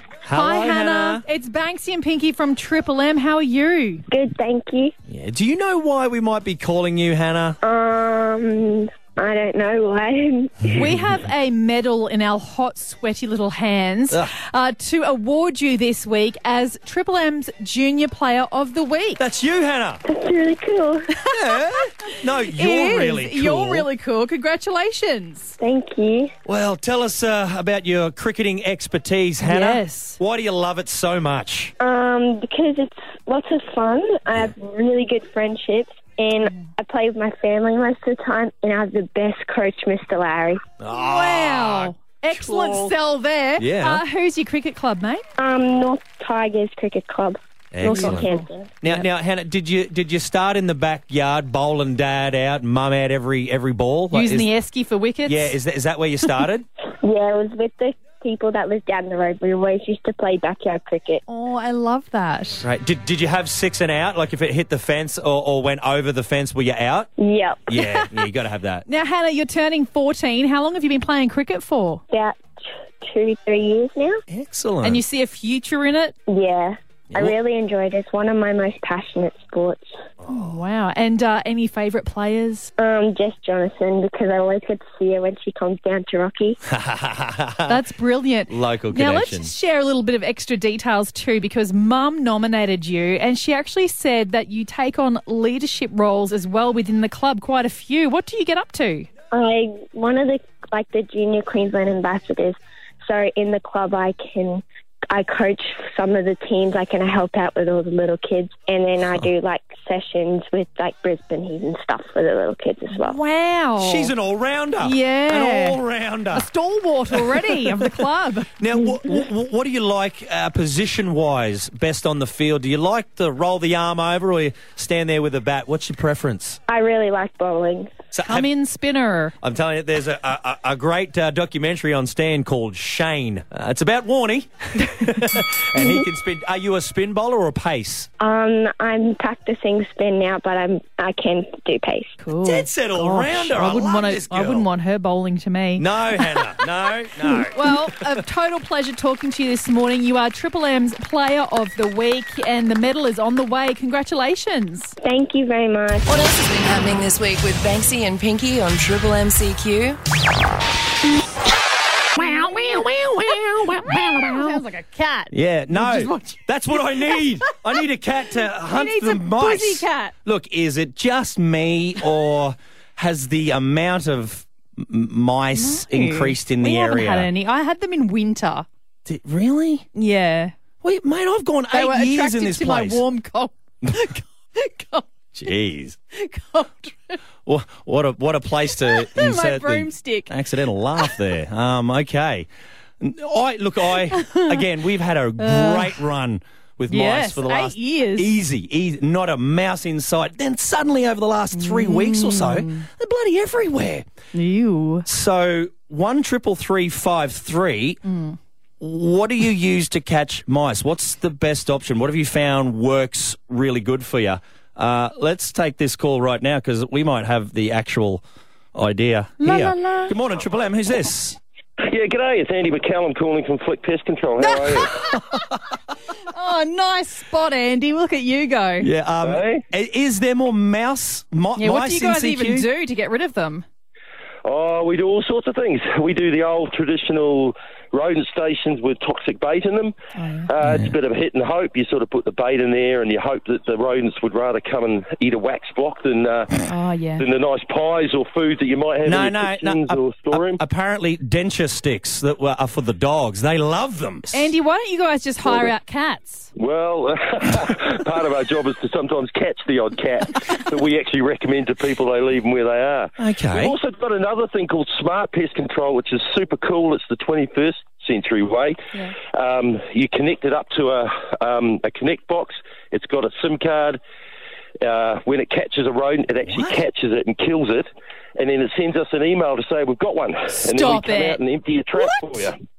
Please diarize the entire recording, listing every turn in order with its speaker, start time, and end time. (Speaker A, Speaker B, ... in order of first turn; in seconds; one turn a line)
Speaker A: 0.2-1.2
Speaker B: 0.3-4.0
Speaker C: 4.1-4.9
Speaker A: 5.1-7.6
Speaker C: 7.6-10.9
Speaker B: 10.8-19.2
Speaker A: 19.2-20.0
Speaker C: 20.0-21.1
Speaker B: 21.2-25.5
Speaker A: 21.3-23.9
Speaker C: 25.6-26.3
Speaker A: 26.4-31.7
Speaker B: 29.4-30.2
Speaker C: 31.8-40.6
Speaker A: 40.8-42.9
Speaker B: 40.9-45.2
Speaker A: 43.6-44.0
Speaker C: 45.4-48.7
Speaker A: 47.7-48.3
Speaker B: 47.8-49.0
Speaker A: 48.8-54.5
Speaker B: 54.1-55.5
Speaker A: 55.2-56.6
Speaker C: 57.0-61.2
Speaker B: 61.3-62.6
Speaker A: 62.6-67.1
Speaker C: 67.2-67.7
Speaker A: 67.7-68.8
Speaker B: 67.7-68.1
Speaker B: 68.9-72.0
Speaker C: 72.1-72.4
Speaker C: 73.0-74.2
Speaker A: 74.3-75.0
Speaker B: 74.8-76.2
Speaker C: 76.3-79.8
Speaker A: 80.2-80.6
Speaker B: 80.3-82.7
Speaker C: 82.8-86.6
Speaker A: 86.7-87.8
Speaker B: 87.7-99.1
Speaker A: 88.5-89.5
Speaker C: 99.3-113.2
Speaker B: 112.9-114.1
Speaker A: 113.8-116.5
Speaker B: 114.8-118.5
Speaker A: 117.1-117.9
Speaker A: 118.6-126.6
Speaker C: 126.7-127.9
Speaker A: 128.1-128.5
Speaker B: 128.2-129.3
Speaker A: 129.4-138.1
Speaker C: 138.2-142.2
Speaker B: 142.2-146.6
Speaker A: 142.4-144.7
Speaker A: 145.8-148.1
Speaker B: 147.2-154.9
Speaker C: 155.0-156.1
Speaker D: 156.1-160.0
Speaker B: 162.2-167.5
Speaker A: 162.2-164.5
Speaker A: 165.3-177.3
Speaker B: 168.6-170.1
Speaker B: 175.5-178.7
Speaker A: 179.1-179.9
Speaker B: 179.9-180.5
Speaker A: 180.8-183.0
Speaker B: 181.7-185.1
Speaker A: 185.3-186.0
Speaker B: 186.1-187.2
Speaker A: 187.4-192.5
Speaker B: 188.8-190.3
Speaker A: 193.0-204.1
Speaker B: 194.1-194.6
Speaker B: 195.4-196.0
Speaker B: 196.9-198.3
Speaker B: 201.5-202.8
Speaker B: 204.3-205.1
Speaker A: 205.1-208.0
Speaker B: 208.0-208.4
Speaker A: 208.8-218.2
Speaker A: 218.7-221.4
Speaker B: 219.4-220.1
Speaker E: 221.8-224.9
Speaker B: 224.4-225.4
Speaker B: 226.3-228.9
Speaker A: 228.8-232.7
Speaker E: 229.2-229.6
Speaker B: 231.6-233.6
Speaker E: 234.4-239.9
Speaker B: 240.1-240.5
Speaker E: 240.5-246.6
Speaker A: 240.6-240.9
Speaker B: 246.6-247.2
Speaker E: 247.2-250.6
Speaker A: 249.0-254.5
Speaker B: 254.3-256.5
Speaker E: 256.6-274.0
Speaker A: 263.2-263.7
Speaker E: 274.8-282.6
Speaker A: 276.4-276.8
Speaker B: 280.6-281.4
Speaker B: 281.9-282.4